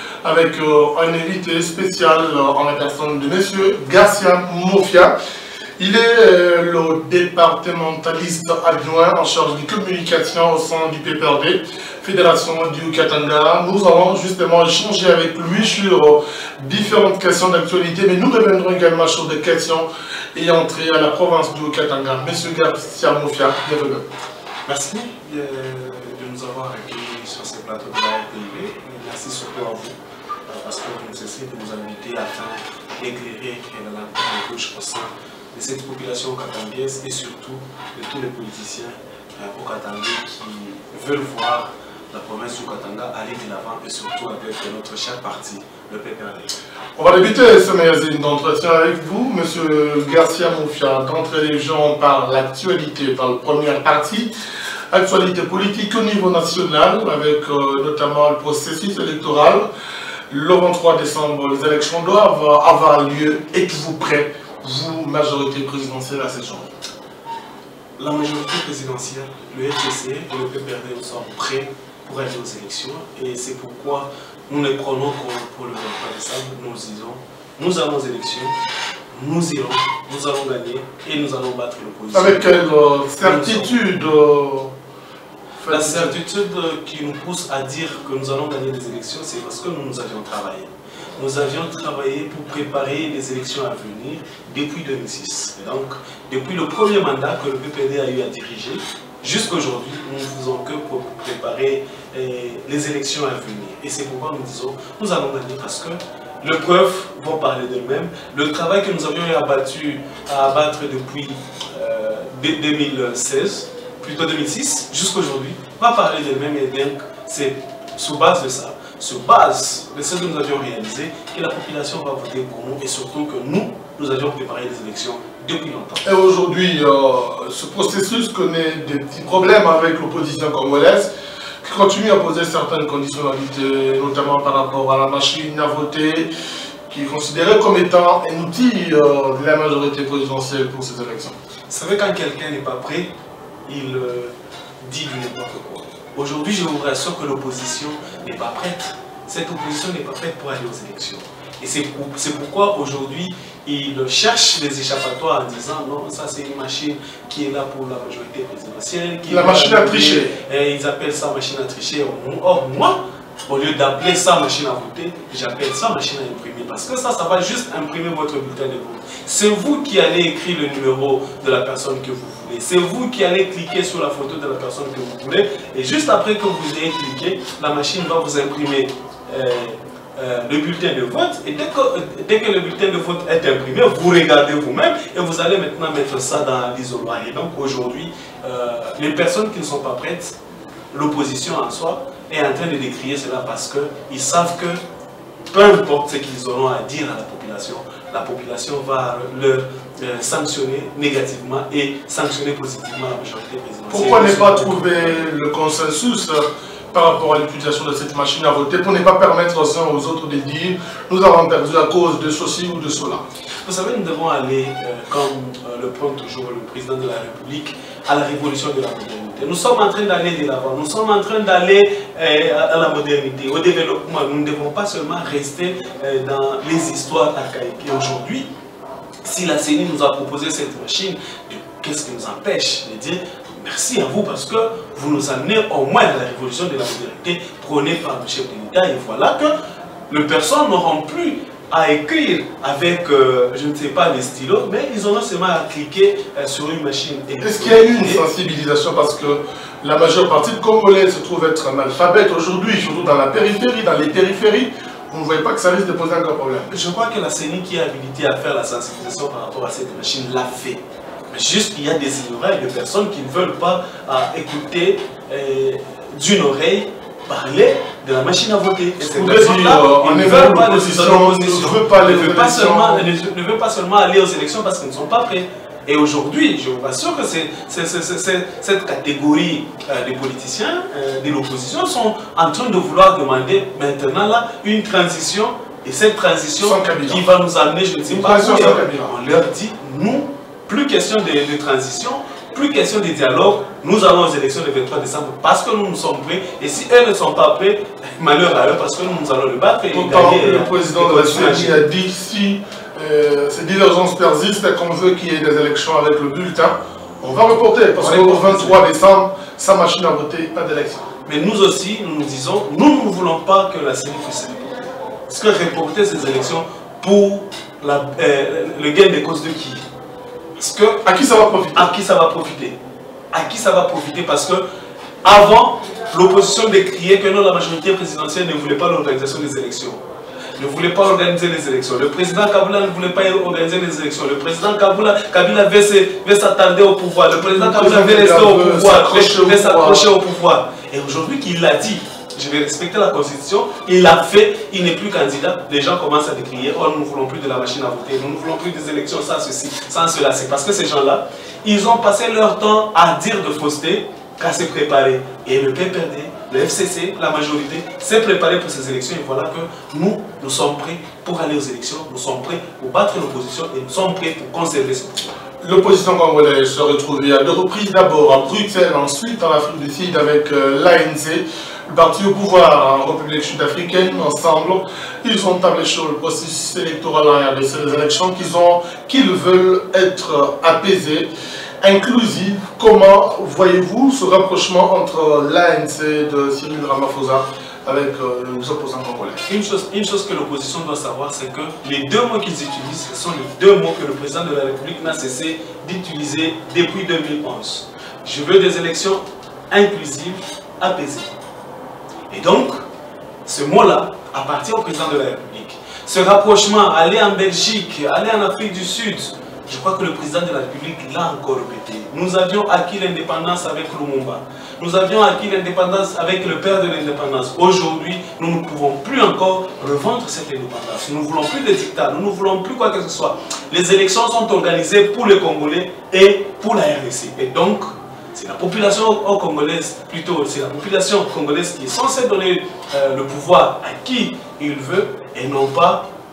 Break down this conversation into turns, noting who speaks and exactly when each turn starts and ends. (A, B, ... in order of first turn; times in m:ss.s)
0:00.2-0:05.2 A
0:05.8-0:24.1 A
0:24.7-0:30.0 B
0:30.5-0:46.5 B
0:47.0-0:54.3 A
0:54.9-0:59.7 A
1:00.3-1:06.7 A
1:08.0-1:18.6 B
1:19.1-1:22.7 B
1:22.1-1:24.7 A
1:23.2-1:23.7 B
1:25.6-1:26.1 A
1:25.7-2:06.1 B
2:06.0-2:11.1 A
2:11.6-2:16.3 A
2:16.9-2:21.3 A
2:21.7-2:23.1 B
2:23.7-3:10.4 B
2:39.3-2:40.3 A
3:10.9-3:14.8 B
3:15.5-3:25.0 B
3:23.9-3:33.2 A
3:33.6-3:48.5 B
3:49.2-3:59.5 B
4:00.1-4:08.2 B
4:07.4-4:16.7 A
4:16.7-5:01.8 B
4:29.1-4:33.1 A
4:46.6-4:47.2 A
4:48.1-4:49.2 A
4:59.9-5:11.0 A
5:08.0-5:08.8 B
5:11.3-5:19.8 B
5:20.6-5:21.0 B
5:21.0-5:21.9 A
5:21.8-5:22.8 B
5:23.3-5:24.6 B
5:25.2-5:30.0 B
5:30.6-6:05.3 B
5:37.3-5:40.1 A
6:05.6-6:21.3 A
6:21.8-6:29.4 A
6:29.5-6:41.3 B
6:42.3-6:42.8 B
6:43.5-7:16.0 B